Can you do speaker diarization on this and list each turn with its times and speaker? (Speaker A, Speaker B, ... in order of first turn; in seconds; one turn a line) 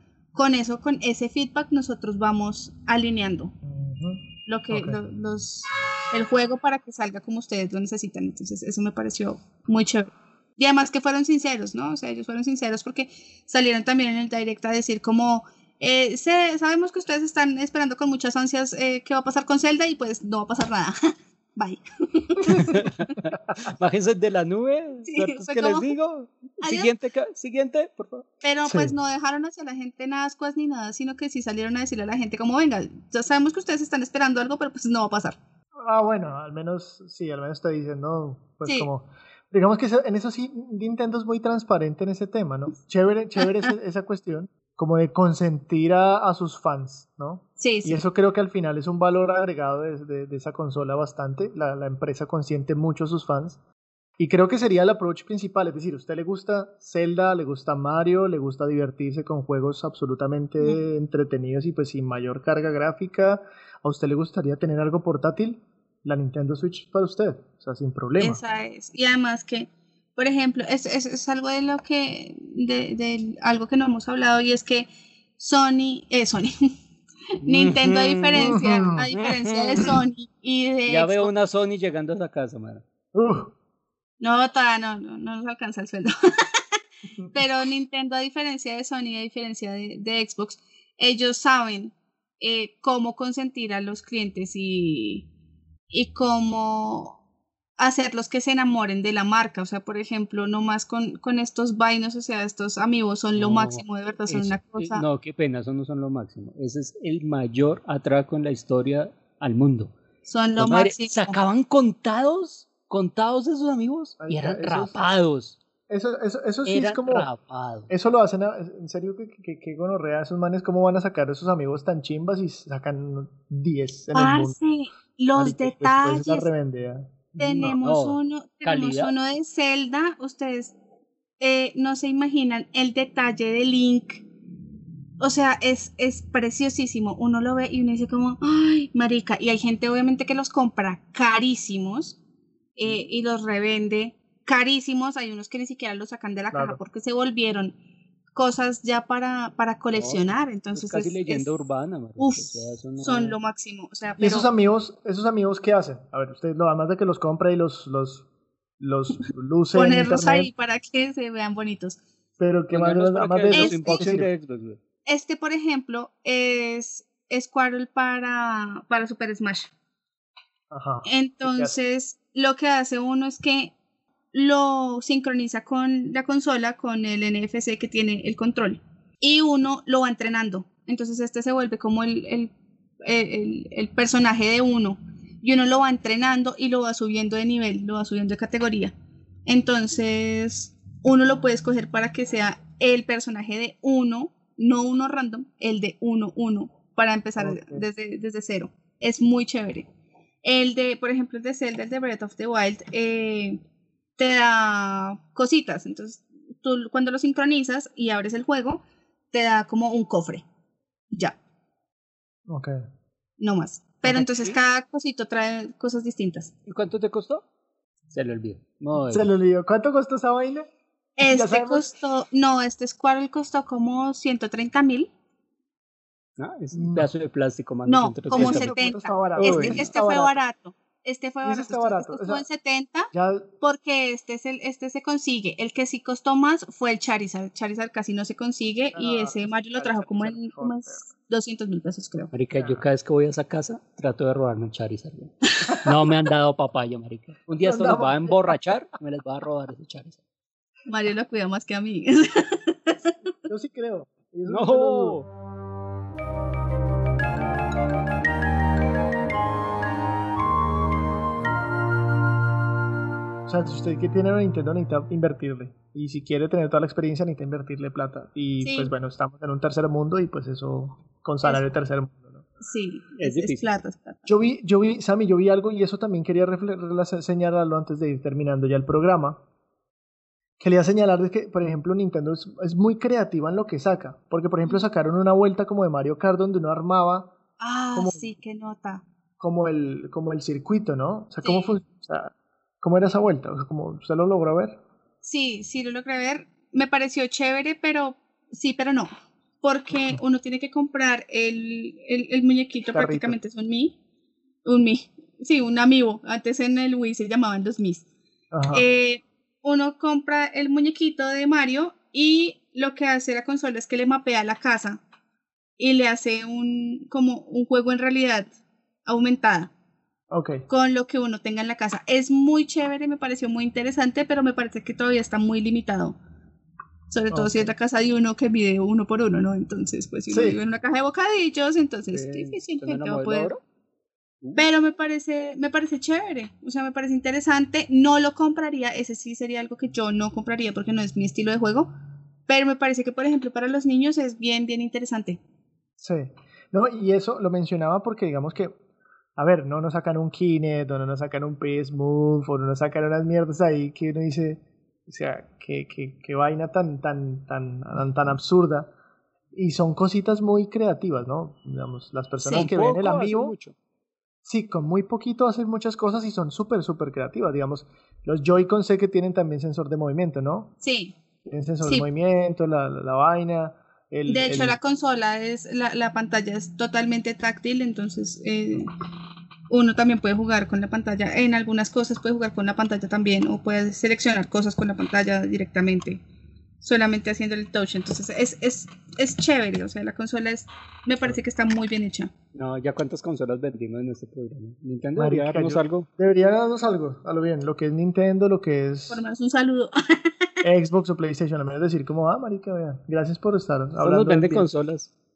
Speaker A: 0.3-3.5
Speaker B: 3.6-5.0
Speaker A: 4.5-22.9
Speaker C: 22.5-28.3
Speaker B: 23.3-23.6
Speaker A: 25.1-25.9
Speaker A: 26.6-26.9
Speaker A: 28.4-35.4
Speaker B: 28.6-28.9
Speaker B: 35.8-53.6
Speaker A: 47.6-48.0
Speaker B: 54.2-68.4
Speaker A: 68.2-76.7
Speaker A: 77.4-81.3
Speaker C: 77.4-78.6
Speaker B: 78.3-79.1
Speaker C: 79.1-80.0
Speaker C: 80.9-82.8
Speaker B: 83.1-83.5
Speaker A: 84.2-86.6
Speaker A: 87.3-95.3
Speaker A: 95.9-97.2
Speaker A: 97.8-105.0
Speaker C: 103.4-109.9
Speaker A: 110.2-111.4
Speaker C: 110.6-115.6
Speaker B: 114.2-115.0
Speaker B: 115.9-117.3
Speaker C: 116.7-117.9
Speaker B: 117.9-124.6
Speaker A: 124.1-126.5
Speaker B: 125.4-127.8
Speaker A: 127.4-130.7
Speaker C: 127.6-129.1
Speaker A: 131.4-134.2
Speaker A: 135.2-142.2
Speaker A: 142.8-147.8
Speaker B: 146.5-146.8
Speaker A: 148.3-151.5
Speaker C: 149.9-153.4
Speaker A: 152.2-154.5
Speaker B: 154.2-158.3
Speaker B: 158.8-160.5
Speaker A: 159.7-162.0
Speaker B: 162.4-164.3
Speaker C: 162.7-164.8
Speaker A: 163.5-164.1
Speaker A: 165.1-169.7
Speaker B: 170.7-171.7
Speaker A: 171.1-173.7
Speaker A: 174.3-188.9
Speaker A: 189.4-199.9
Speaker B: 197.4-197.8
Speaker A: 200.4-203.6
Speaker A: 204.2-210.4
Speaker A: 211.1-211.4
Speaker B: 212.5-212.8
Speaker A: 213.4-216.5
Speaker B: 214.1-214.5
Speaker C: 216.7-217.4
Speaker C: 218.1-219.3
Speaker B: 219.1-220.7
Speaker A: 221.2-225.1
Speaker B: 221.2-221.9
Speaker C: 226.4-228.7
Speaker B: 226.7-227.1
Speaker A: 227.9-242.3
Speaker B: 228.3-230.4
Speaker C: 229.4-229.9
Speaker B: 231.4-232.4
Speaker B: 233.1-233.5
Speaker B: 238.9-241.0
Speaker C: 242.3-250.2
Speaker B: 242.5-242.8
Speaker B: 247.6-248.8
Speaker A: 250.9-253.1
Speaker B: 253.4-255.2
Speaker C: 254.5-255.3
Speaker B: 263.4-272.4
Speaker A: 268.6-268.9
Speaker A: 272.6-274.3
Speaker C: 273.2-273.7
Speaker B: 274.3-279.4
Speaker B: 280.6-287.3
Speaker A: 287.6-289.1
Speaker B: 287.9-288.3
Speaker B: 289.4-294.8
Speaker A: 291.4-291.8
Speaker A: 295.2-299.1
Speaker A: 299.6-304.0
Speaker B: 302.9-303.4
Speaker A: 304.6-308.1
Speaker B: 308.5-308.9
Speaker A: 308.7-315.0
Speaker A: 315.8-318.5
Speaker A: 319.1-319.7
Speaker B: 320.3-320.6
Speaker A: 320.7-326.2
Speaker A: 327.1-333.5
Speaker B: 327.3-327.7
Speaker B: 330.3-330.6
Speaker C: 332.1-333.6
Speaker C: 334.4-334.7
Speaker A: 334.6-341.9
Speaker A: 342.5-345.4
Speaker B: 346.0-348.8
Speaker B: 349.4-358.9
Speaker B: 359.5-363.6
Speaker A: 362.4-362.7
Speaker C: 362.5-363.7
Speaker B: 364.4-370.7
Speaker A: 370.8-371.2
Speaker B: 371.5-374.8
Speaker A: 374.3-378.9
Speaker A: 379.7-386.2
Speaker A: 386.8-392.3
Speaker C: 392.5-396.1
Speaker B: 395.2-399.2
Speaker A: 399.1-400.5
Speaker B: 400.6-404.7
Speaker C: 404.0-405.1